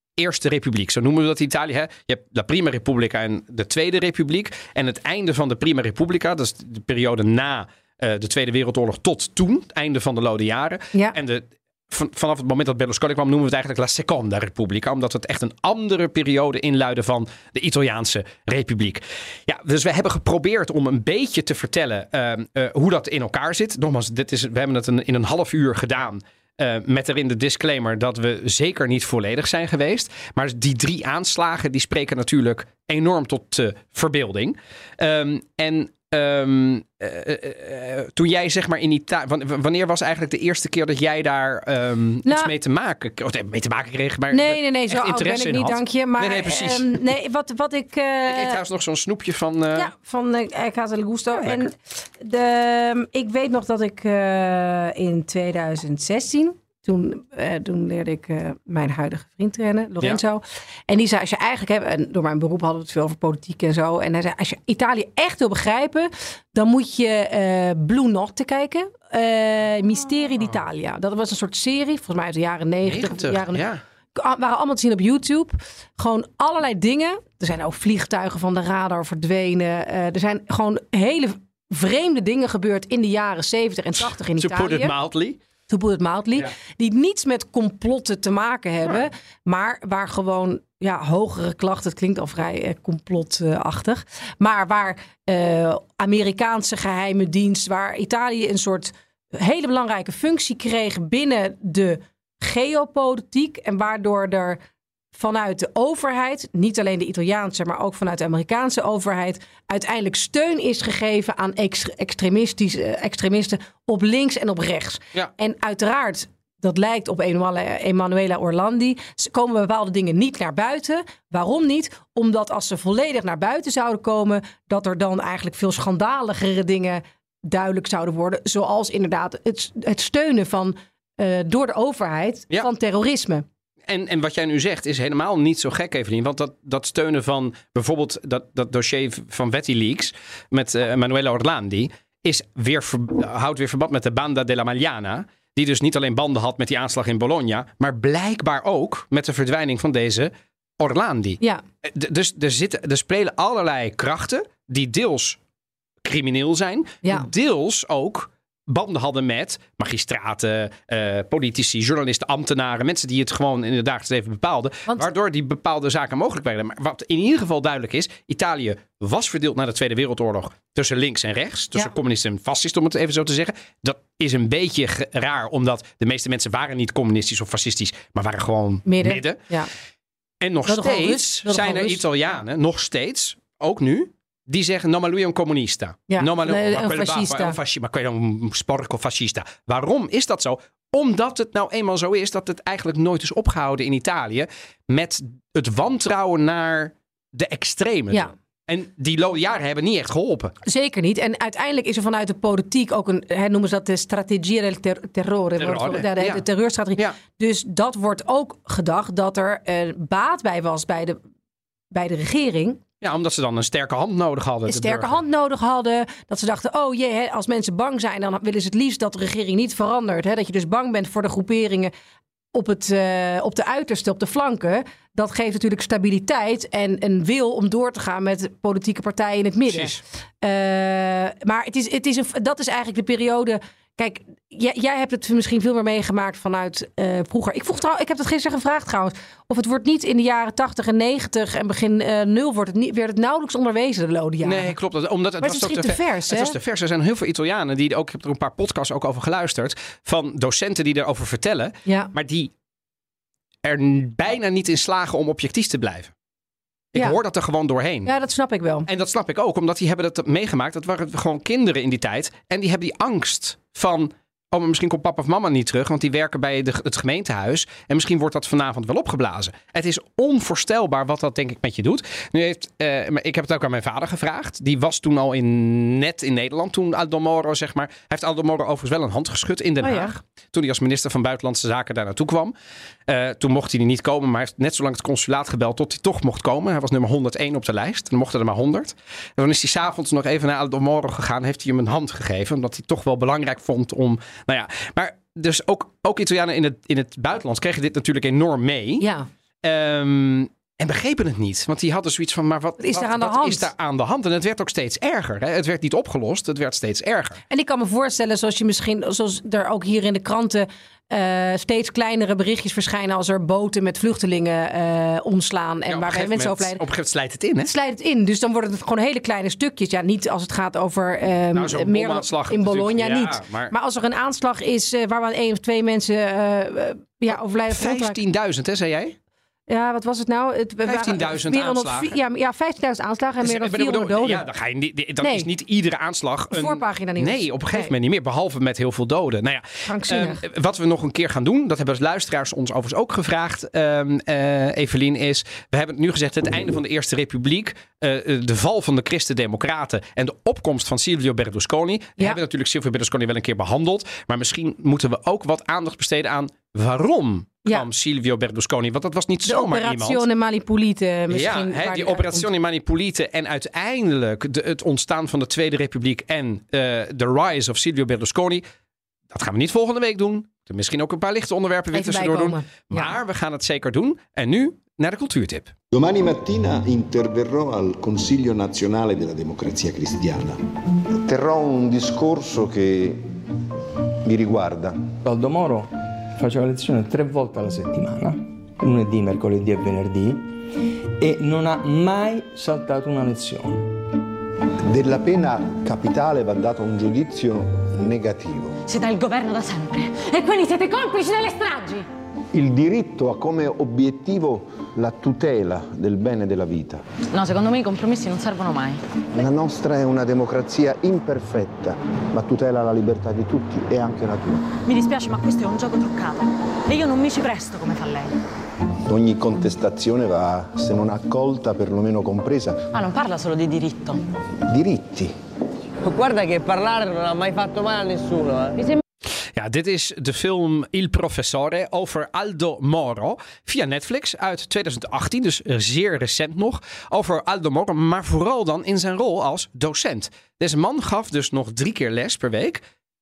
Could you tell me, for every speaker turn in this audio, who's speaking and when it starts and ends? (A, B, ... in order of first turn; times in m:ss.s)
0:00.2-0:47.0 A
0:42.2-0:42.5 B
0:44.3-0:48.6 B
0:48.3-0:49.9 A
0:49.7-1:24.9 B
0:51.3-0:51.6 A
1:12.8-1:13.8 A
1:24.0-1:25.4 A
1:25.7-1:44.6 B
1:45.1-2:13.4 B
2:13.8-2:35.4 A
2:36.0-2:59.4 A
2:58.8-2:59.7 B
3:00.4-3:20.5 A
3:00.6-3:02.0 B
3:06.1-3:07.6 B
3:20.6-3:31.2 B
3:25.6-3:26.4 A
3:31.9-3:32.8 B
3:33.0-3:35.2 A
3:34.7-3:41.9 B
3:42.5-4:04.7 B
3:49.7-3:50.0 A
4:04.4-4:12.5 A
4:05.4-4:06.6 B
4:11.8-4:12.1 B
4:13.6-4:16.1 A
4:16.9-4:18.1 A
4:18.0-4:18.9 B
4:18.8-4:42.5 A
4:39.8-4:40.1 B
4:43.1-4:59.0 A
4:59.0-4:59.3 B
4:59.6-5:07.4 A
5:02.8-5:03.7 B
5:07.5-5:16.8 B
5:15.9-5:17.7 A
5:17.6-5:28.2 B
5:21.5-5:23.7 A
5:27.3-5:29.2 A
5:29.7-5:34.4 B
5:30.8-5:32.2 A
5:33.4-6:00.2 A
5:35.2-5:35.5 B
5:36.5-5:37.9 B
5:39.8-5:40.4 B
5:59.4-6:02.5 B
6:01.3-6:08.6 A
6:09.3-6:15.7 A
6:11.9-6:13.1 B
6:15.9-6:20.6 C
6:21.2-6:23.3 C
6:24.2-6:25.0 C
6:25.2-6:30.5 D
6:31.2-6:33.9 D
6:34.9-6:38.8 C
6:38.8-6:42.0 E
6:42.5-6:47.0 C
6:47.3-6:49.0 E
6:49.3-6:54.7 C
6:54.8-6:58.3 E
6:59.1-7:02.9 C
7:02.9-7:04.2 E
7:04.7-7:05.3 C
7:06.0-7:08.8 F
7:09.5-7:22.8 A